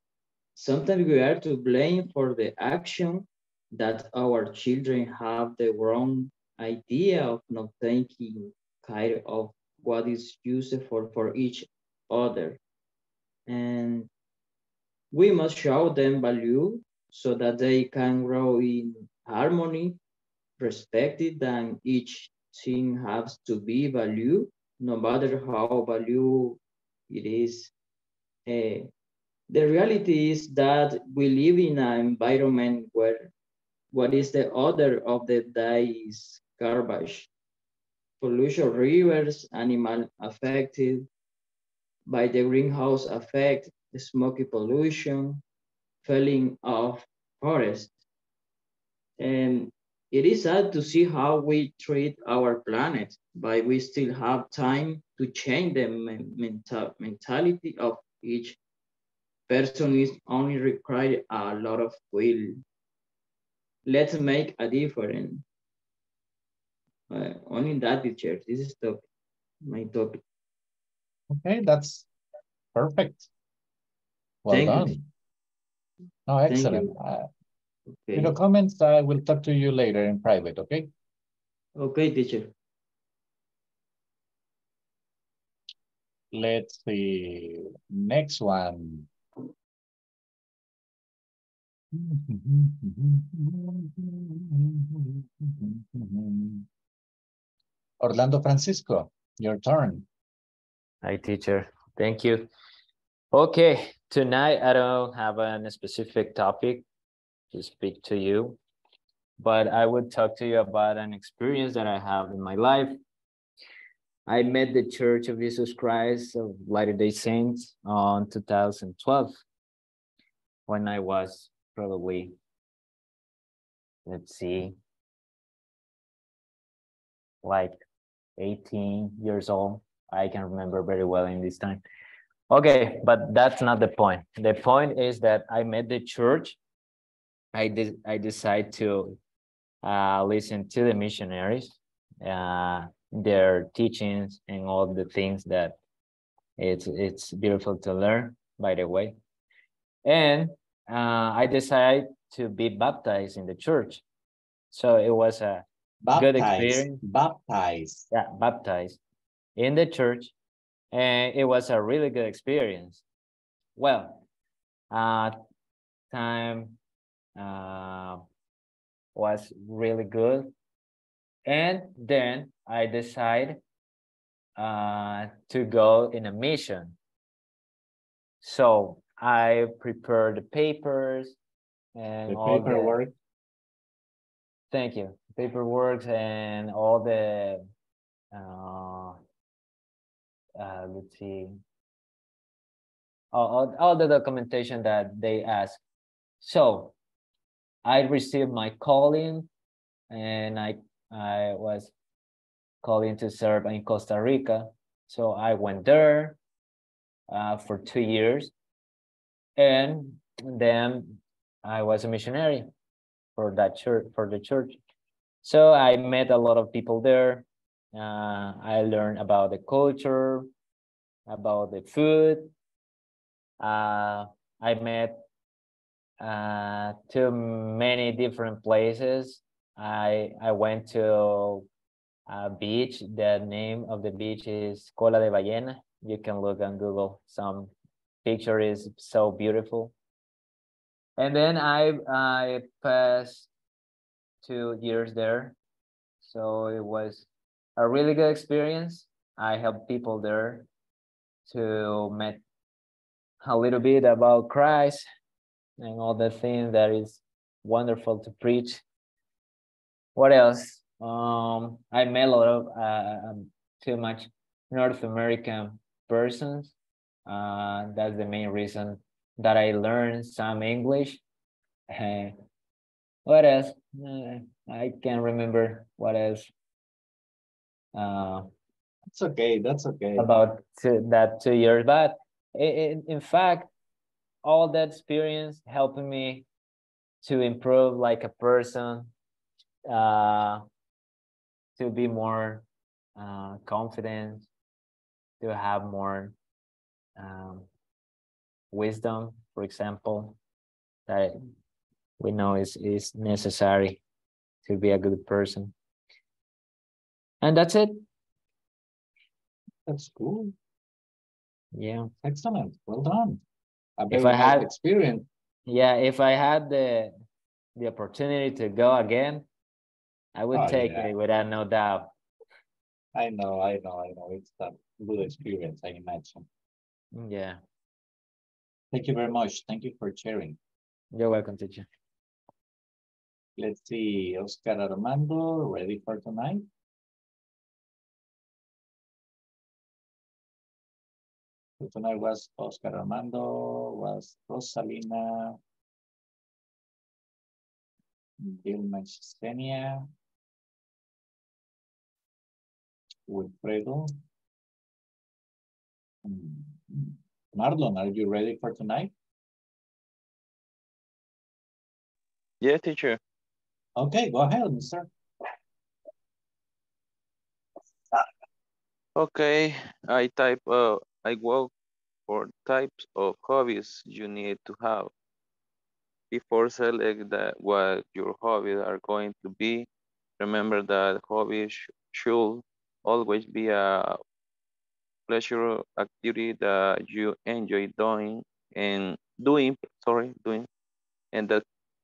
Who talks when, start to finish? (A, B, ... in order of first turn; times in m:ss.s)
0:00.6-0:12.6 A
0:13.5-0:14.1 A
0:15.1-0:20.0 A
0:20.6-0:27.7 A
0:28.4-0:28.9 A
0:29.5-0:33.3 A
0:33.9-0:37.3 A
0:38.2-0:41.1 A
0:42.1-0:45.4 A
0:46.0-0:47.9 A
0:49.2-0:58.6 A
0:59.5-1:02.6 A
1:03.8-1:05.4 A
1:07.1-1:09.0 A
1:09.6-1:10.2 A
1:11.3-1:12.1 B
1:12.7-1:13.3 B
1:14.4-1:15.0 B
1:14.5-1:15.0 A
1:16.3-1:17.3 B
1:16.5-1:16.9 A
1:18.0-1:18.4 A
1:18.1-1:20.9 B
1:21.8-1:22.5 A
1:26.3-1:29.1 B
1:31.9-1:36.7 B
1:38.0-1:40.1 B
1:41.0-1:42.5 C
1:43.3-1:46.8 C
1:47.5-1:48.6 C
1:49.4-1:53.0 C
1:54.3-1:59.4 C
2:00.7-2:02.3 C
2:04.0-2:04.7 C
2:07.4-2:07.8 C
2:08.4-2:11.8 C
2:12.5-2:16.6 C
2:17.5-2:19.2 C
2:19.8-2:25.8 C
2:26.6-2:29.2 C
2:30.0-2:34.0 C
2:34.7-2:37.0 C
2:36.0-2:38.1 B
2:38.1-2:39.0 C
2:39.6-2:40.3 C
2:40.9-2:43.0 C
2:43.8-2:44.2 C
2:44.9-2:45.4 C
2:46.1-2:46.8 C
2:47.4-2:48.2 C
2:49.1-2:50.5 C
2:51.4-2:53.6 C
2:54.6-2:57.0 C
2:58.4-3:01.4 C
3:01.9-3:03.0 C
3:02.3-3:03.1 B
3:04.7-3:07.6 C
3:08.3-3:09.2 C
3:10.6-3:11.6 C
3:13.3-3:15.8 C
3:16.4-3:16.9 C
3:17.8-3:19.5 C
3:20.1-3:21.9 C
3:22.8-3:26.4 C
3:27.3-3:28.5 C
3:29.6-3:32.7 C
3:33.4-3:34.8 C
3:35.4-3:40.5 C
3:41.3-3:42.5 C
3:43.6-3:45.2 C
3:46.2-3:51.7 C
3:52.3-3:57.7 C
3:58.2-3:59.9 C
4:01.2-4:03.5 C
4:04.4-4:05.5 C
4:06.2-4:10.7 C
4:11.5-4:12.4 C
4:13.4-4:15.0 C
4:15.8-4:18.8 C
4:20.2-4:26.7 C
4:27.2-4:31.2 C
4:31.9-4:32.3 C
4:33.2-4:36.5 C
4:37.9-4:38.5 C
4:39.1-4:40.3 B
4:40.2-4:43.7 C
4:44.4-4:46.4 C
4:47.2-4:49.1 C
4:49.9-4:50.6 C
4:51.8-4:52.6 C
4:53.2-4:54.5 C
4:55.4-4:56.3 C
4:57.2-4:57.7 C
4:58.7-5:00.4 C
5:01.1-5:01.3 C
5:02.2-5:04.0 C
5:04.6-5:05.7 C
5:07.4-5:08.0 C
5:09.8-5:10.5 B
5:11.7-5:12.1 C
5:12.2-5:13.4 B
5:14.0-5:15.3 B
5:14.1-5:14.7 C
5:15.7-5:17.1 C
5:17.8-5:19.4 C
5:20.3-5:22.1 C
5:20.5-5:21.1 B
5:23.1-5:26.5 B
5:27.1-5:27.6 C
5:28.9-5:30.6 B
5:31.1-5:31.9 C
5:33.6-5:36.7 B
5:41.8-5:45.6 B
5:48.4-5:50.1 B
5:53.3-5:54.1 B
5:56.2-5:59.1 B
6:02.6-6:03.2 D
6:04.0-6:05.1 B
6:09.2-6:11.7 D
6:12.3-6:15.1 D
6:16.3-6:19.9 D
6:20.4-6:24.2 D
6:25.3-6:30.7 D
6:31.3-6:31.6 D